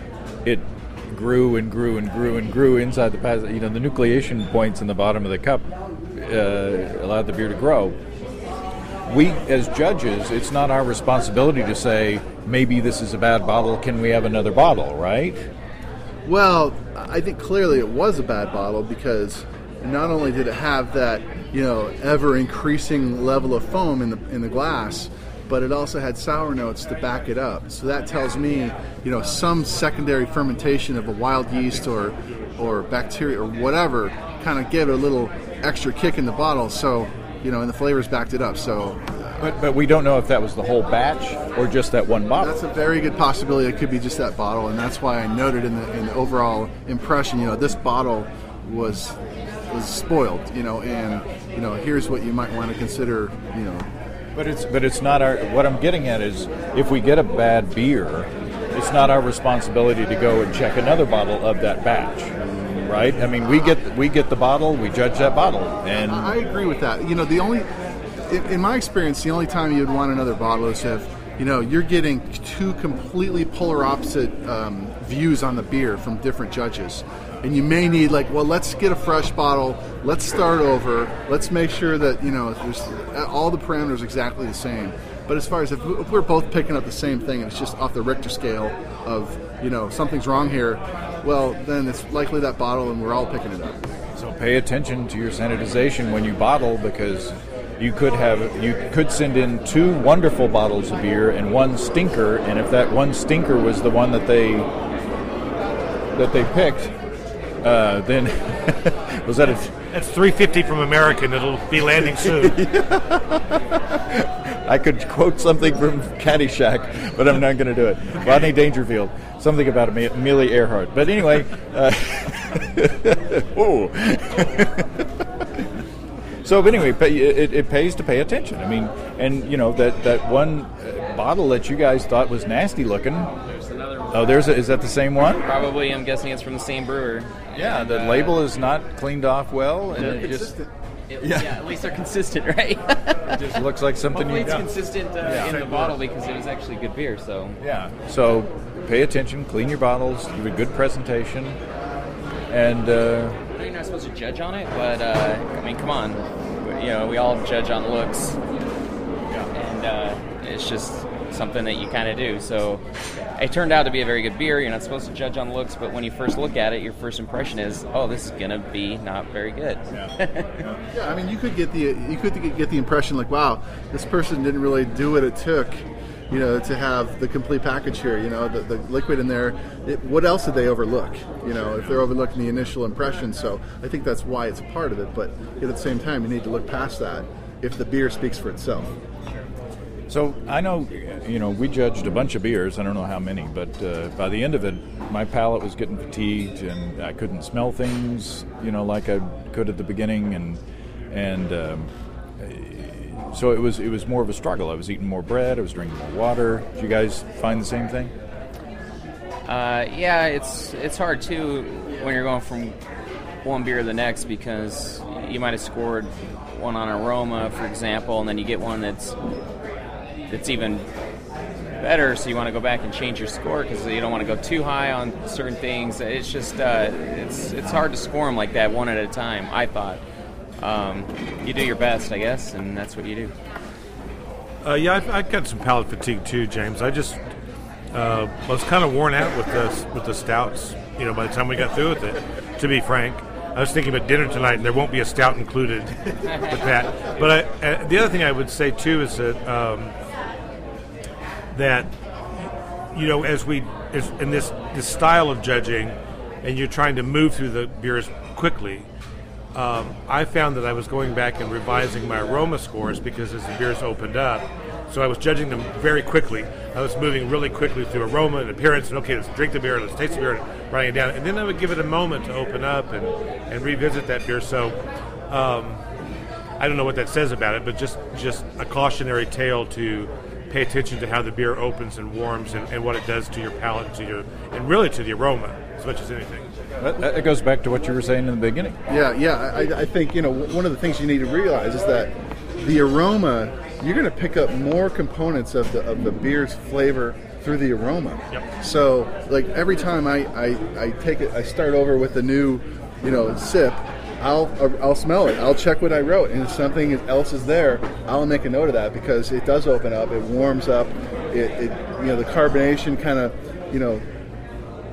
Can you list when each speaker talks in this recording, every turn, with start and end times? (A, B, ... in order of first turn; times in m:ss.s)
0:00.4-0:08.0 A
0:09.1-0:15.5 A
0:16.2-0:39.3 B
0:39.4-0:42.5 A
0:42.4-0:53.9 B
0:54.3-1:06.4 A
1:06.0-1:07.7 B
1:08.3-1:33.8 B
1:34.1-1:44.7 A
1:46.1-1:46.9 A
1:47.6-1:49.7 A
1:49.9-1:52.6 C
1:52.3-2:05.2 A
2:06.4-2:13.3 A
2:13.4-2:14.3 D
2:14.1-2:15.5 A
2:15.4-2:18.4 D
2:17.5-2:20.6 A
2:19.9-2:27.6 D
2:20.4-2:20.6 B
2:21.2-2:21.6 A
2:23.4-2:24.7 A
2:25.2-2:25.9 A
2:27.6-2:31.6 A
2:32.5-2:33.4 A
2:33.5-2:38.4 D
2:39.5-2:42.8 D
2:43.3-2:50.6 D
2:49.9-2:50.8 A
2:50.9-3:08.9 B
3:10.1-3:28.1 A
3:29.4-3:32.8 D
3:33.4-3:39.2 D
3:40.3-3:40.8 D
3:41.8-3:50.0 D
3:50.6-3:53.3 D
3:54.6-3:57.2 C
3:57.9-4:09.9 C
4:11.5-4:11.9 C
4:12.9-4:18.9 C
4:19.5-4:35.8 C
4:36.6-4:46.5 C
4:46.8-4:48.8 A
4:48.9-5:14.0 B